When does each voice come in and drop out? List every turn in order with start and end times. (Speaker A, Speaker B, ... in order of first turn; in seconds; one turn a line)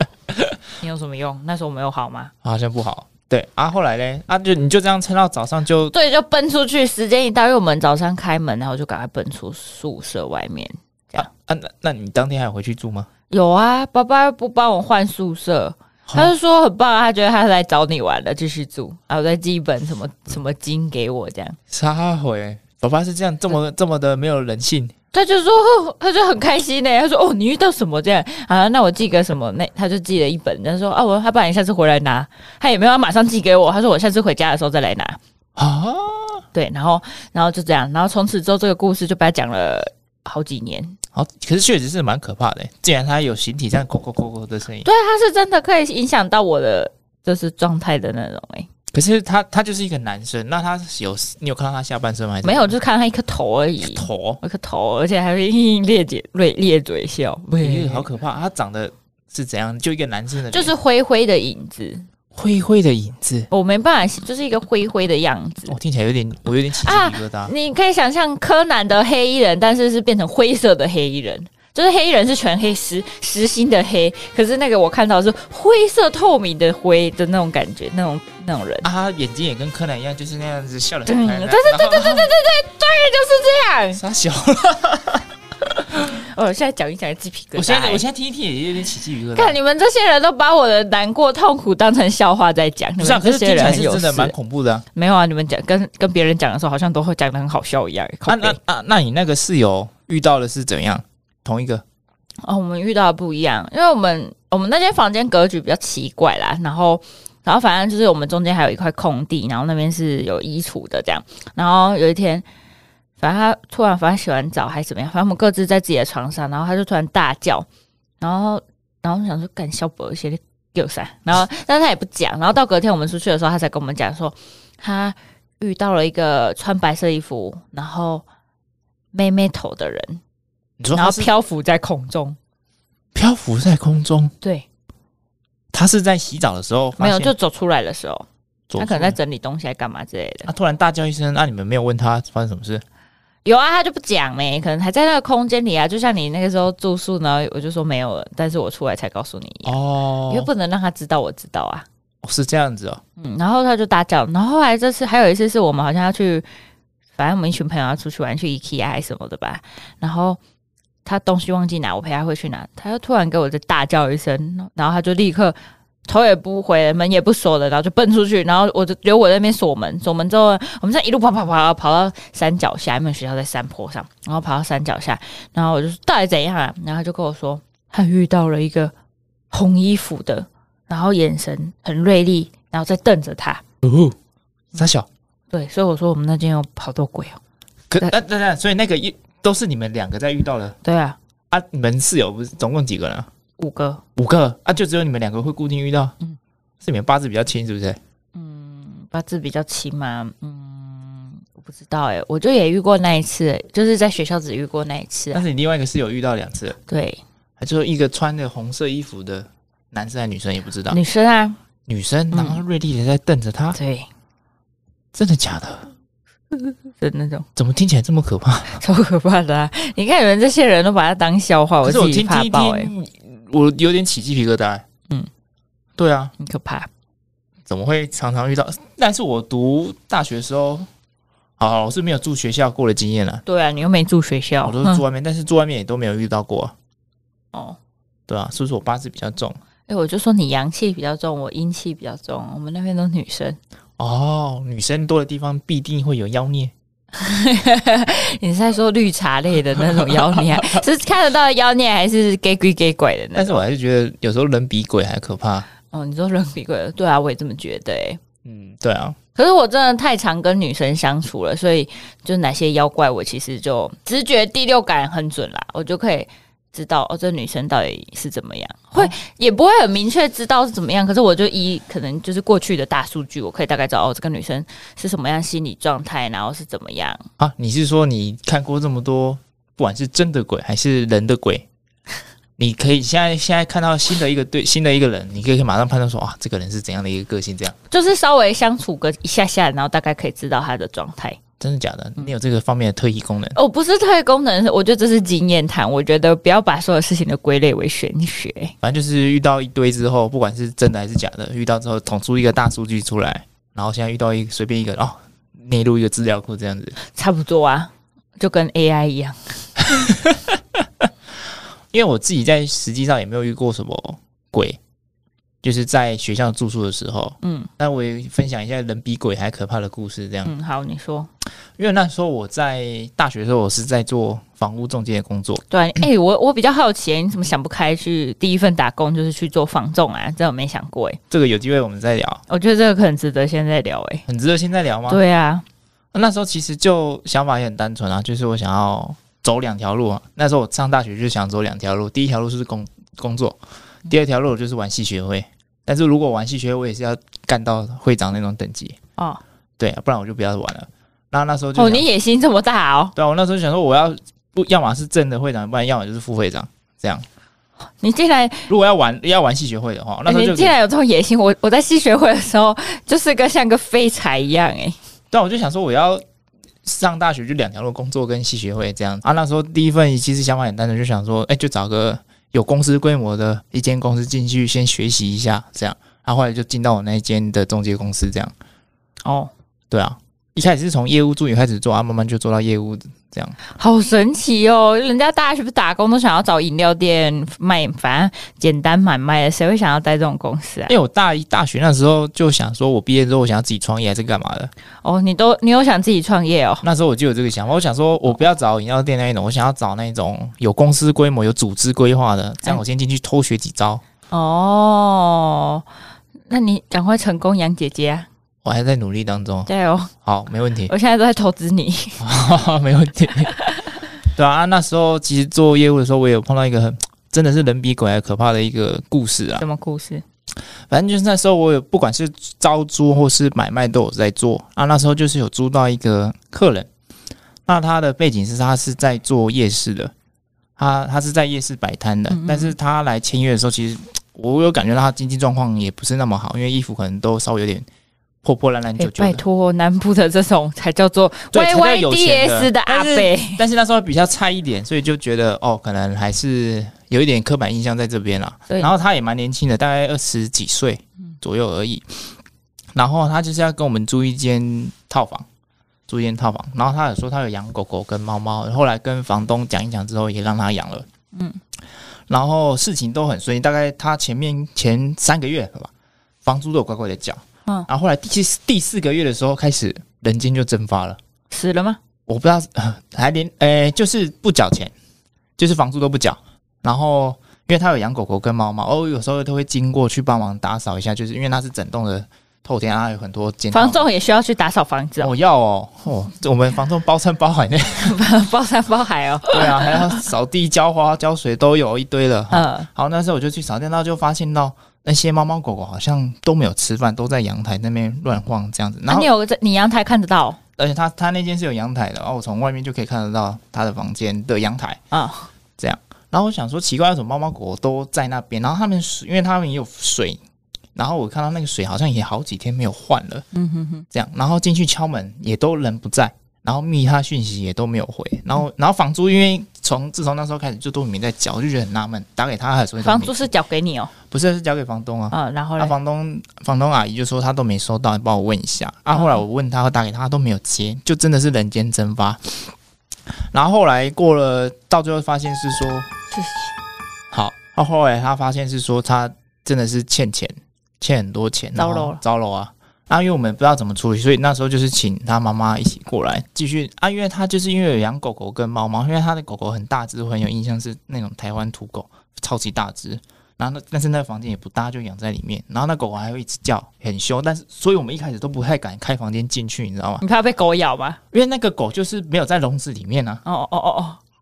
Speaker A: 0.8-2.3
Speaker B: 2.4-5.9
Speaker A: 5.9-11.3
Speaker B: 11.1-13.1
Speaker A: 13.3-21.6
Speaker B: 16.1-16.3
Speaker B: 21.7-24.9
Speaker A: 25.1-35.2
Speaker B: 35.6-36.4
Speaker A: 36.5-41.0
Speaker B: 41.1-44.9
Speaker A: 44.8-48.7
Speaker B: 48.9-52.7
Speaker A: 52.4-58.0
Speaker B: 53.8-54.4
Speaker B: 57.6-60.7
Speaker A: 60.5-62.1
Speaker B: 62.3-63.5
Speaker A: 63.5-65.7
Speaker B: 65.7-67.5
Speaker A: 66.8-78.8
Speaker B: 78.8-82.3
Speaker A: 81.0-84.0
Speaker B: 83.9-85.3
Speaker A: 86.0-88.0
Speaker B: 87.5-89.6
Speaker A: 89.3-94.3
Speaker B: 93.0-94.8
Speaker A: 94.9-98.6
Speaker B: 98.3-101.8
Speaker A: 102.4-112.5
Speaker A: 113.2-117.7
Speaker A: 118.2-128.2
Speaker A: 129.1-130.2
Speaker B: 130.8-131.3
Speaker A: 130.9-132.4
Speaker B: 133.1-134.3
Speaker B: 135.7-137.3
Speaker A: 137.0-140.5
Speaker B: 138.7-139.2
Speaker B: 140.4-142.8
Speaker A: 143.4-151.8
Speaker B: 149.6-150.5
Speaker B: 152.2-153.0
Speaker A: 153.2-156.5
Speaker A: 157.2-160.4
Speaker A: 161.0-178.9
Speaker A: 179.5-183.6
Speaker B: 183.8-184.2
Speaker B: 184.7-185.1
Speaker A: 185.5-187.4
Speaker B: 187.9-190.8
Speaker A: 190.8-191.2
Speaker B: 191.5-193.3
Speaker A: 193.6-194.0
Speaker B: 194.1-196.1
Speaker B: 196.8-198.0
Speaker A: 198.3-205.4
Speaker B: 205.3-206.8
Speaker A: 206.9-207.2
Speaker B: 207.6-211.0
Speaker A: 210.9-211.6
Speaker B: 211.9-213.8
Speaker A: 212.3-212.6
Speaker A: 213.7-214.1
Speaker B: 215.1-215.9
Speaker A: 217.0-217.5
Speaker B: 217.6-218.8
Speaker A: 218.7-222.9
Speaker B: 221.8-224.8
Speaker B: 226.0-226.3
Speaker A: 226.4-226.9
Speaker B: 227.7-230.9
Speaker B: 231.6-233.4
Speaker A: 233.4-235.0
Speaker B: 234.6-236.7
Speaker A: 237.5-237.8
Speaker B: 238.3-239.6
Speaker A: 239.9-243.6
Speaker B: 244.0-246.7
Speaker A: 247.1-253.6
Speaker B: 249.8-250.8
Speaker B: 253.3-255.7
Speaker A: 255.9-258.2
Speaker B: 258.4-259.2
Speaker A: 259.4-277.2
Speaker B: 277.4-281.7
Speaker B: 282.6-287.8
Speaker A: 287.9-291.4
Speaker B: 291.6-293.6
Speaker A: 293.5-298.8
Speaker B: 298.8-307.0
Speaker A: 307.1-310.1
Speaker B: 309.9-310.6
Speaker B: 311.9-314.8
Speaker B: 315.6-320.5
Speaker A: 317.4-317.7
Speaker A: 320.4-321.3
Speaker B: 321.8-325.6
Speaker A: 325.7-331.2
Speaker B: 331.3-332.4
Speaker A: 332.5-334.2
Speaker B: 334.3-335.2
Speaker A: 335.1-335.6
Speaker B: 336.1-349.0
Speaker A: 349.2-349.4
Speaker B: 349.8-352.1
Speaker A: 351.7-353.1
Speaker B: 353.1-357.2
Speaker A: 358.0-358.7
Speaker B: 358.7-360.8
Speaker A: 360.2-365.0
Speaker B: 365.3-366.2
Speaker B: 366.8-378.5
Speaker A: 379.2-379.5
Speaker B: 379.9-383.6
Speaker A: 383.7-390.9
Speaker B: 390.9-394.7
Speaker A: 395.0-396.8
Speaker B: 396.8-404.0
Speaker A: 404.3-405.9
Speaker A: 406.5-408.3
Speaker B: 408.6-409.7
Speaker A: 409.6-410.1
Speaker B: 410.2-410.9
Speaker A: 410.9-412.2
Speaker B: 412.2-413.5
Speaker A: 413.5-414.0
Speaker B: 414.2-419.6
Speaker A: 419.6-420.2
Speaker B: 420.9-426.9
Speaker B: 427.7-430.1
Speaker B: 430.8-437.8
Speaker A: 432.3-432.8
Speaker B: 438.4-439.4
Speaker A: 439.0-443.6
Speaker B: 441.5-452.4
Speaker B: 452.9-455.4
Speaker B: 456.1-461.1
Speaker A: 461.3-461.6
Speaker B: 462.3-465.9
Speaker B: 466.4-471.2
Speaker A: 471.5-472.0
Speaker B: 472.3-474.9
Speaker B: 475.6-484.1
Speaker A: 483.7-485.3
Speaker B: 485.2-488.2
Speaker A: 488.0-490.2
Speaker B: 489.5-499.3
Speaker A: 492.5-492.9
Speaker A: 499.1-500.6
Speaker B: 500.8-505.0
Speaker A: 505.1-505.5
Speaker B: 505.8-510.4
Speaker B: 510.9-513.5
Speaker A: 513.5-514.0
Speaker B: 514.1-523.4
Speaker A: 523.0-524.1
Speaker B: 524.3-532.7
Speaker A: 525.3-526.0
Speaker A: 529.1-529.4
Speaker B: 533.5-536.1
Speaker A: 536.3-536.8
Speaker B: 537.3-560.2
Speaker A: 541.8-542.2
Speaker A: 560.2-561.2
Speaker B: 561.3-563.4
Speaker A: 563.4-564.2